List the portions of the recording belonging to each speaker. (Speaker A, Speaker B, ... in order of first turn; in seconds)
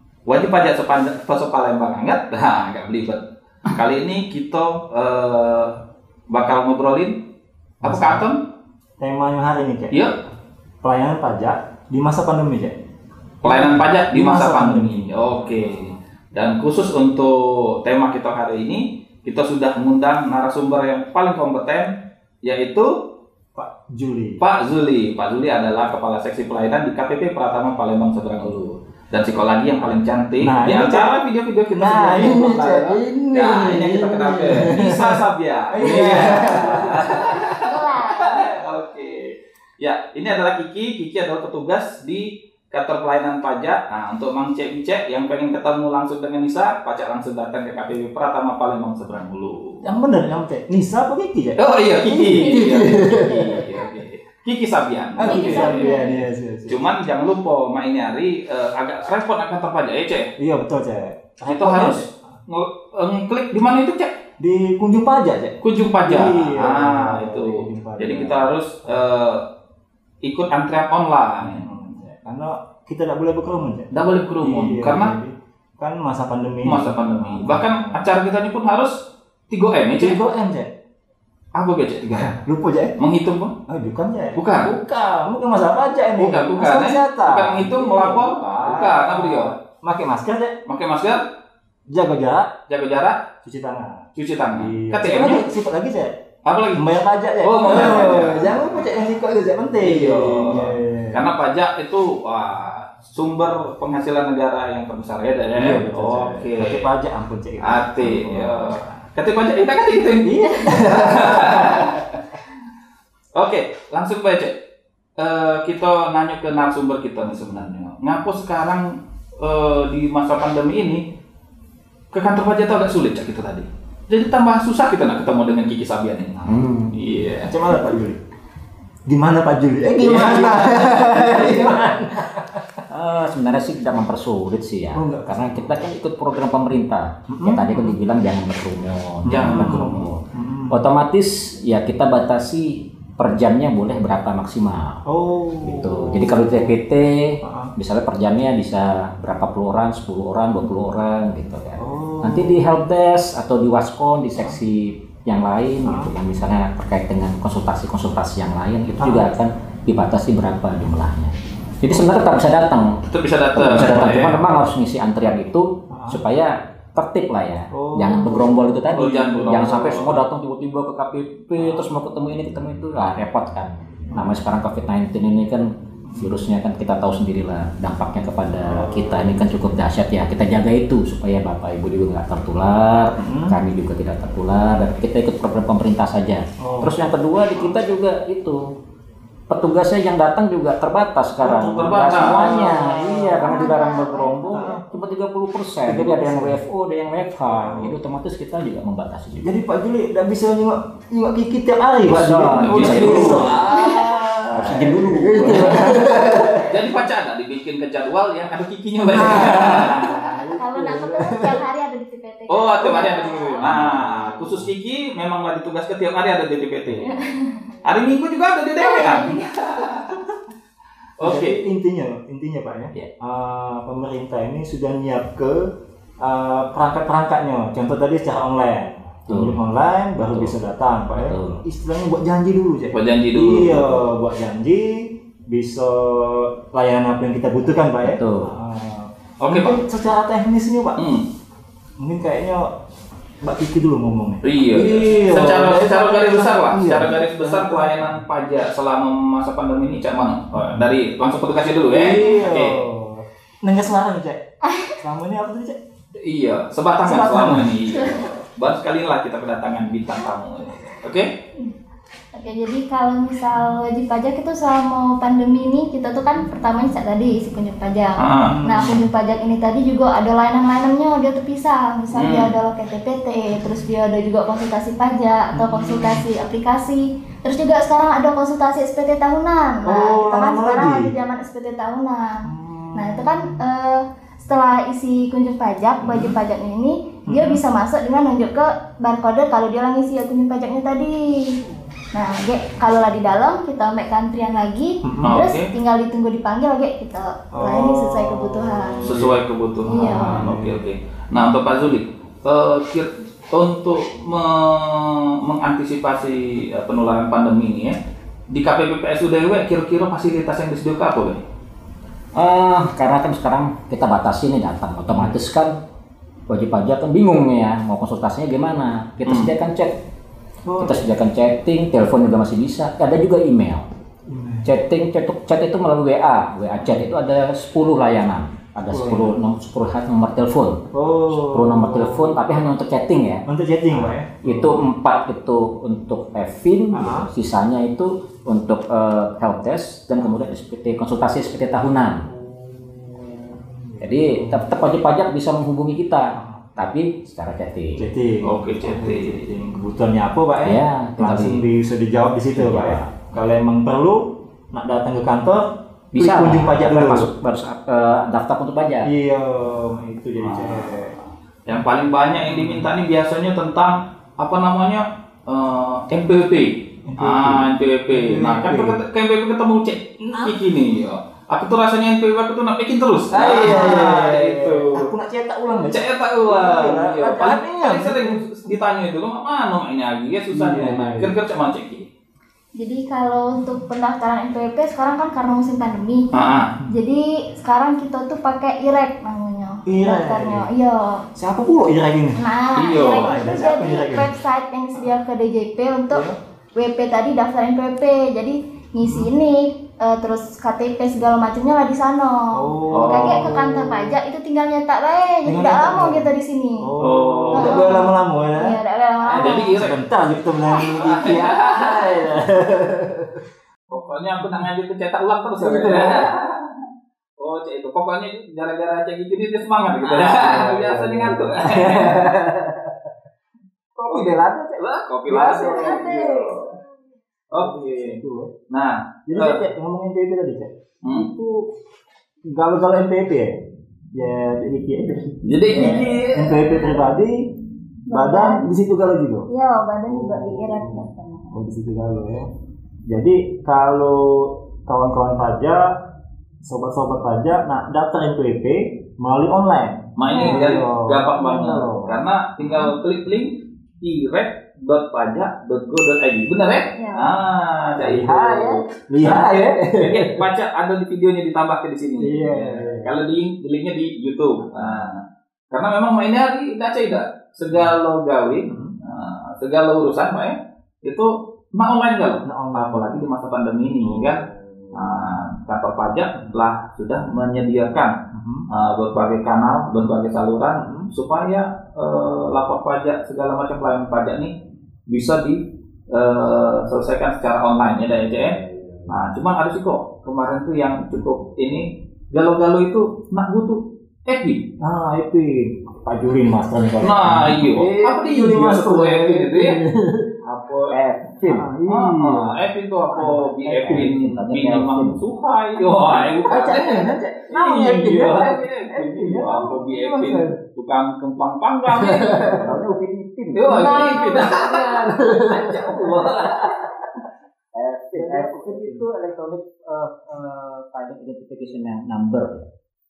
Speaker A: 0.3-5.8, 6.3-7.2, 7.8-8.4, 13.4-22.9, 24.4-49.9, 51.6-60.3, 61.5-64.2, 65.6-69.5, 70.2-71.7, 73.9-75.2, 76.6-80.2, 81.5-82.4, 83.0-83.5, 84.3-84.7, 86.2-89.5, 90.7-91.3, 92.7-93.2, 94.2-95.5, 96.5-96.8, 97.4-98.9, 99.8-106.9, 107.6-112.2, 113.3-114.5, 115.2-121.1, 122.1-127.5, 130.0-131.9, 139.3-140.1, 163.1-164.4, 168.9-170.2, 191.7-192.6, 202.5-203.6, 205.4-205.9, 206.6-210.2, 212.5-217.3, 217.8-220.2, 221.2-221.6, 232.9-234.0, 239.4-239.8, 240.9-241.3, 244.4-252.8, 256.2-261.3, 268.2-268.6, 272.1-272.5, 295.2-295.7, 299.0-308.0, 308.5-311.4, 319.3-319.5, 348.4-349.5, 360.4-375.1, 375.8-382.1, 386.3-386.7, 392.8-393.3, 402.9-403.6, 407.0-408.1, 409.4-410.0, 410.9-412.3, 413.9-416.6, 417.4-422.4, 424.1-426.7, 427.5-428.2, 428.7-429.6, 435.4-436.8, 450.2-465.2, 465.7-478.1, 478.7-484.5, 485.1-488.6, 489.1-494.6, 497.0-499.8, 500.4-500.9, 501.9-512.8, 513.5-516.7
Speaker B: 7.8-8.3, 9.0-10.0, 10.8-12.8, 13.4-16.0, 23.6-24.4, 30.4-31.2, 31.7-37.6, 49.8-53.9, 55.2-56.8, 60.4-62.1, 64.4-69.0, 71.4-78.1, 80.0-80.7, 82.1-83.0, 83.7-90.6, 91.9-92.5, 93.4-96.2, 96.8-101.2, 105.5-108.9, 110.2-111.9, 127.5-128.2, 129.1-132.7, 134.9-135.7, 137.3-137.9, 139.2-140.9, 145.1-146.8, 147.4-147.7, 151.8-152.6, 155.8-156.1, 159.0-159.3, 165.9-166.2, 167.7-169.7, 171.6-171.9, 174.1-174.4, 178.6-179.5, 183.2-183.6, 186.6-187.0, 191.4-193.4, 194.5-194.8, 195.8-196.6, 197.5-197.9, 199.4-206.8, 209.1-211.6, 213.7-214.6, 221.2-241.0, 242.0-242.7, 243.4-248.2, 250.6-250.9, 251.9-254.4, 255.0-255.8, 257.0-257.7, 268.4-269.1, 275.5-276.3, 279.8-281.1, 282.5-283.6, 286.0-286.4, 287.3-287.6, 295.0-295.4, 297.5-300.8, 315.1-315.4, 320.6-321.1, 324.3-324.7, 326.8-327.1, 328.9-329.4, 330.9-332.4, 333.5-334.8, 336.9-337.3, 342.3-344.7, 346.4-346.6, 348.0-357.3, 359.0-361.2, 362.4-362.9, 367.1-369.0, 370.2-370.6, 373.3-378.6, 380.5-381.4, 389.9-390.7, 391.4-392.4, 393.0-394.3, 399.0-399.3, 402.5-404.2, 405.5-406.3, 406.8-413.4, 415.6-416.3, 420.0-422.9, 424.0-426.5, 427.6-428.5, 429.3-431.6, 432.5-433.6, 434.1-437.4, 438.1-439.5, 440.1-442.5, 443.1-445.9, 446.6-452.9, 457.9-460.4, 462.2-463.2, 464.7-465.1, 468.6-468.9, 472.4-473.2, 474.0-474.9, 478.3-478.7, 480.7-481.1, 488.7-489.2, 494.8-500.3, 501.5-502.6, 503.1-504.1, 505.8-510.6, 511.9-512.6, 513.7-516.5, 518.1-519.1
Speaker C: 37.6-38.5, 55.2-56.2, 193.3-194.8, 203.5-204.1, 209.5-213.9, 217.1-217.7, 218.8-219.8, 254.6-255.0, 257.9-258.3, 262.4-282.4, 282.9-291.6, 292.1-299.1, 299.9-300.5, 373.6-374.1, 382.8-386.3, 386.9-391.1, 392.4-406.9, 407.5-409.8, 425.8-426.5, 438.1-438.6, 439.5-441.6, 450.3-450.7, 456.9-457.3
Speaker D: 126.5-127.0, 132.9-145.0, 145.6-163.0, 163.5-188.7, 189.5-199.5, 202.1-206.1, 213.7-214.1, 229.3-229.6, 230.2-230.6, 231.1-231.6, 238.0-238.5, 312.4-315.7, 316.5-320.0, 320.8-323.9, 324.6-342.3, 344.0-348.1, 350.6-351.6, 352.5-353.1, 356.1-359.1, 500.9-501.7, 503.2-505.2, 512.5-514.6, 515.8-516.7, 517.7-522.7